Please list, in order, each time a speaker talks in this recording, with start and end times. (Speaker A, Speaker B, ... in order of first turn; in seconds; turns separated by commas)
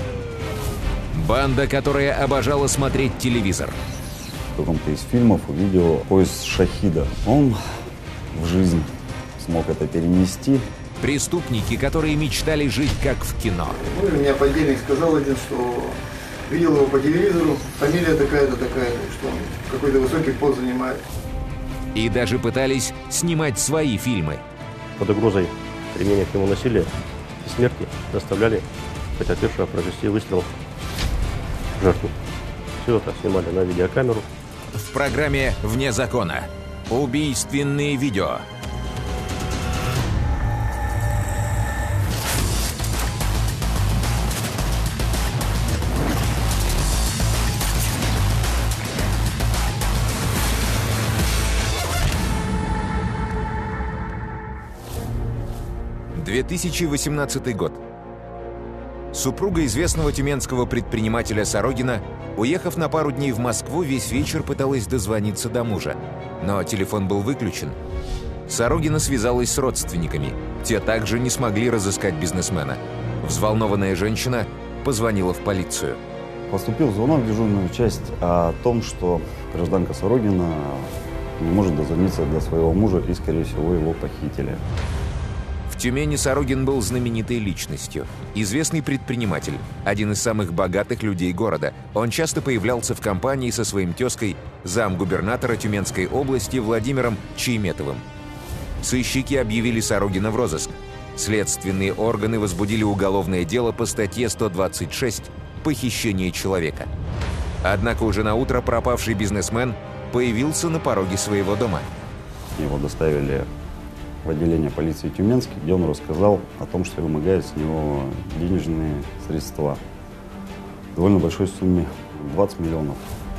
Speaker A: 1.1-3.8, Speaker B: 4.5-7.6, Speaker B: 8.3-10.6, Speaker A: 11.0-13.8, Speaker C: 13.7-21.0, Speaker A: 21.9-24.4, Speaker D: 25.0-28.7, Speaker D: 29.2-30.6, Speaker D: 31.8-32.1, Speaker D: 32.8-34.3, Speaker A: 34.8-38.5, Speaker A: 56.1-57.8, Speaker A: 59.1-67.8, Speaker A: 68.5-76.0, Speaker B: 76.5-84.6, Speaker A: 85.7-98.0, Speaker A: 98.8-106.9, Speaker A: 107.6-111.9, Speaker B: 112.6-113.5, Speaker B: 114.2-119.8, Speaker B: 121.0-123.0